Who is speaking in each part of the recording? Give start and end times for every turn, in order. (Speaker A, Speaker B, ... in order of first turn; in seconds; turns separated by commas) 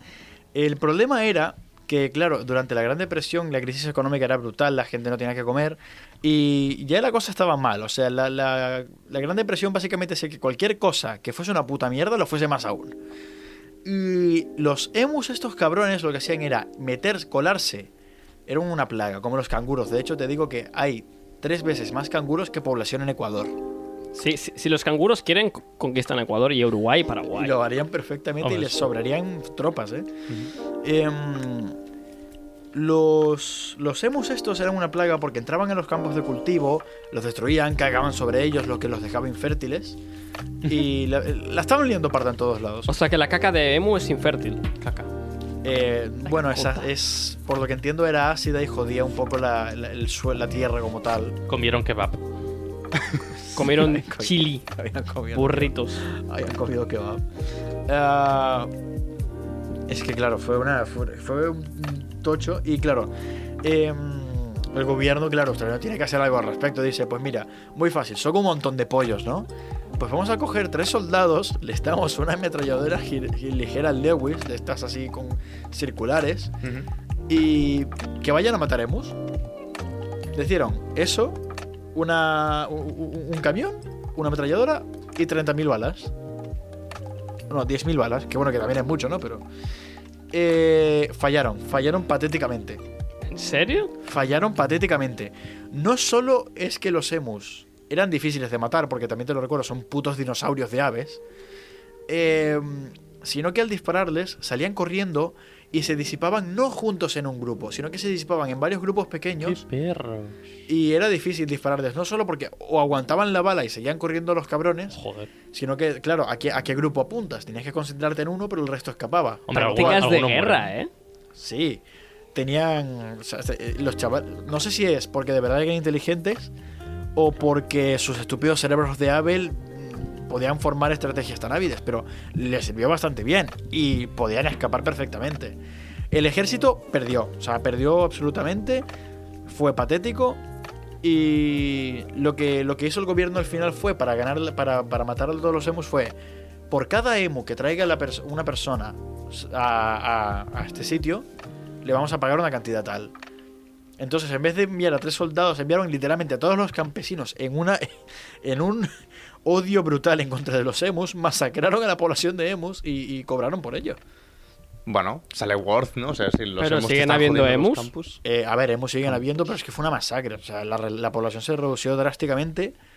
Speaker A: 0.5-12.9, Speaker A: 13.8-17.9, Speaker A: 18.5-23.5, Speaker B: 24.1-27.6, Speaker A: 27.3-30.1, Speaker C: 28.4-28.9, Speaker A: 30.8-31.7, Speaker A: 32.7-40.0, Speaker A: 40.6-43.0, Speaker B: 42.9-44.7, Speaker C: 44.8-45.1, Speaker A: 45.6-51.4, Speaker B: 46.5-46.8, Speaker C: 51.5-52.2, Speaker A: 53.3-57.2, Speaker B: 53.5-54.6, Speaker B: 55.3-56.0, Speaker A: 57.9-58.7, Speaker A: 59.9-76.5, Speaker D: 76.6-76.9, Speaker A: 77.3-79.2, Speaker A: 80.3-81.4, Speaker A: 81.9-86.1, Speaker A: 87.5-89.4, Speaker A: 90.3-92.8, Speaker B: 93.3-93.9, Speaker A: 94.0-101.2, Speaker A: 102.1-109.6, Speaker C: 109.4-110.3, Speaker A: 110.7-115.0, Speaker C: 114.9-115.3, Speaker A: 115.5-120.1, Speaker C: 119.5-120.7, Speaker B: 119.6-120.9, Speaker A: 121.3-121.8, Speaker A: 122.3-126.5, Speaker A: 127.2-135.6, Speaker A: 136.1-138.8, Speaker A: 139.5-140.4, Speaker A: 141.0-146.1, Speaker A: 146.7-151.2, Speaker A: 151.8-153.1, Speaker A: 154.0-158.9, Speaker A: 159.4-164.0, Speaker D: 164.8-168.2, Speaker B: 166.6-167.9, Speaker A: 168.2-172.7